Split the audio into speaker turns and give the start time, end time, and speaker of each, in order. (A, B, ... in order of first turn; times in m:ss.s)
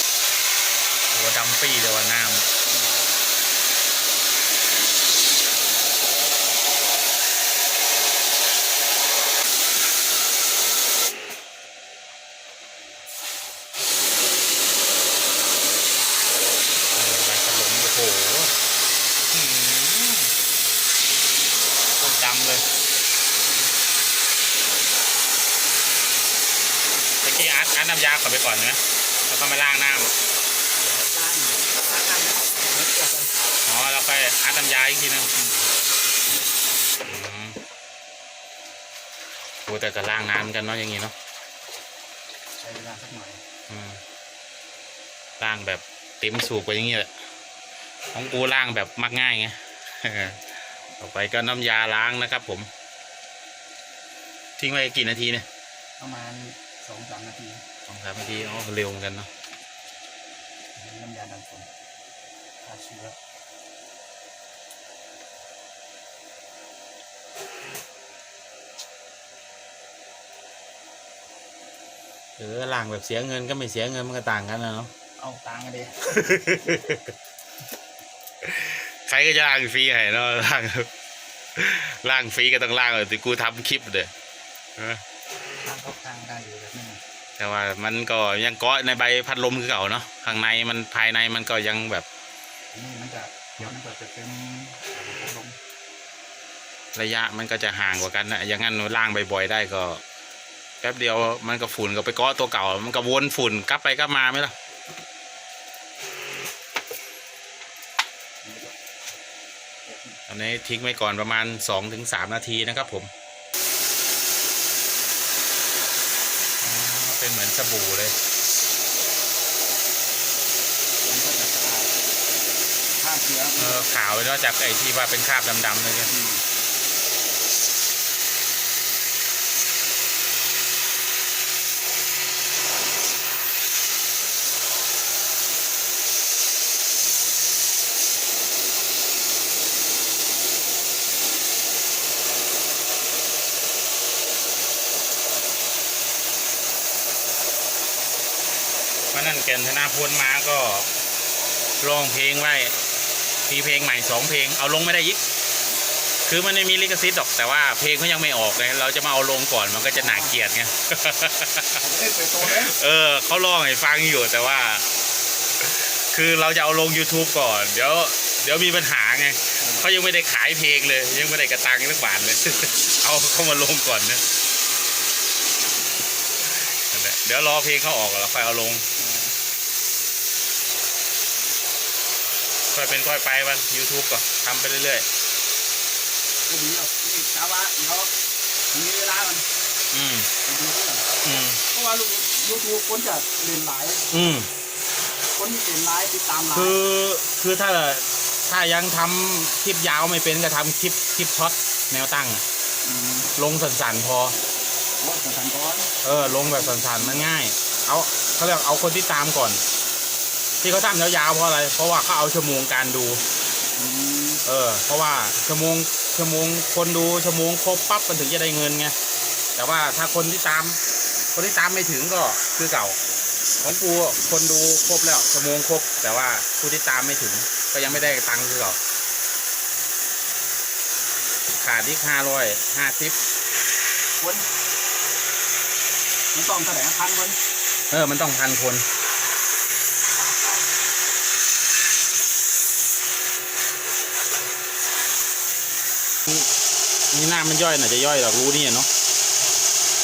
0:01.1-0:02.5 A
0:02.6-0:03.1 B
0:16.9-0:18.5 A
0:19.3-0:20.3 A
0:22.0-0:22.6 A
0:27.2-0:30.1 A
0:30.8-0:33.3 B
0:33.6-0:35.3 A
0:35.3-0:35.7 B
0:37.0-0:37.6 A
0:39.6-0:41.1 A
0:42.6-0:43.4 B
0:43.7-0:44.0 A
0:45.4-0:47.1 A
0:48.1-0:52.7 A
0:54.6-0:55.4 A
0:56.0-0:57.6 B
0:57.8-0:59.3 A
1:00.7-1:01.7 B
1:02.6-1:03.2 B
1:12.4-1:14.9 A
1:15.2-1:16.8 B
1:16.2-1:17.1 A
1:18.4-1:20.9 A
1:21.5-1:24.1 A
1:24.8-1:25.0 A
1:25.6-1:27.0 B
1:27.4-1:32.0 A
1:32.7-1:35.6 B
1:36.9-1:40.0 A
1:40.8-1:44.5 A
1:48.4-1:48.8 B
1:49.8-1:50.2 B
1:50.3-1:53.1 A
1:56.6-1:58.2 A
2:01.0-2:01.9 B
2:03.0-2:04.0 B
2:03.6-2:06.1 A
2:06.1-2:06.4 B
2:29.1-2:30.9 A
2:31.8-2:32.7 A
2:33.5-2:35.2 A
2:36.2-2:41.8 A
2:39.9-2:40.3 B
2:41.8-2:42.8 B
2:42.4-2:44.8 A
2:45.6-2:54.2 A
2:49.6-2:49.9 B
2:56.6-2:58.8 A
2:59.0-2:59.4 B
3:02.7-3:05.0 A
3:06.5-3:08.1 B
3:08.7-3:09.4 B
3:09.9-3:10.3 A
3:10.4-3:11.2 B
3:11.2-3:11.6 A
3:11.7-3:14.1 B
3:14.1-3:14.5 A
3:15.3-3:16.8 B
3:16.5-3:22.4 A
3:22.8-3:23.3 B
3:23.3-3:24.4 A
3:25.0-3:27.2 B
3:26.0-3:29.6 A
3:30.6-3:33.2 A
3:33.7-3:34.4 B
3:34.4-3:38.9 A
3:39.6-3:40.8 A
3:41.3-3:43.0 A
3:43.6-3:48.8 A
3:51.6-3:53.2 A
3:54.2-3:54.4 B
3:56.3-3:57.4 B
3:57.9-3:58.8 A
4:07.1-4:08.9 A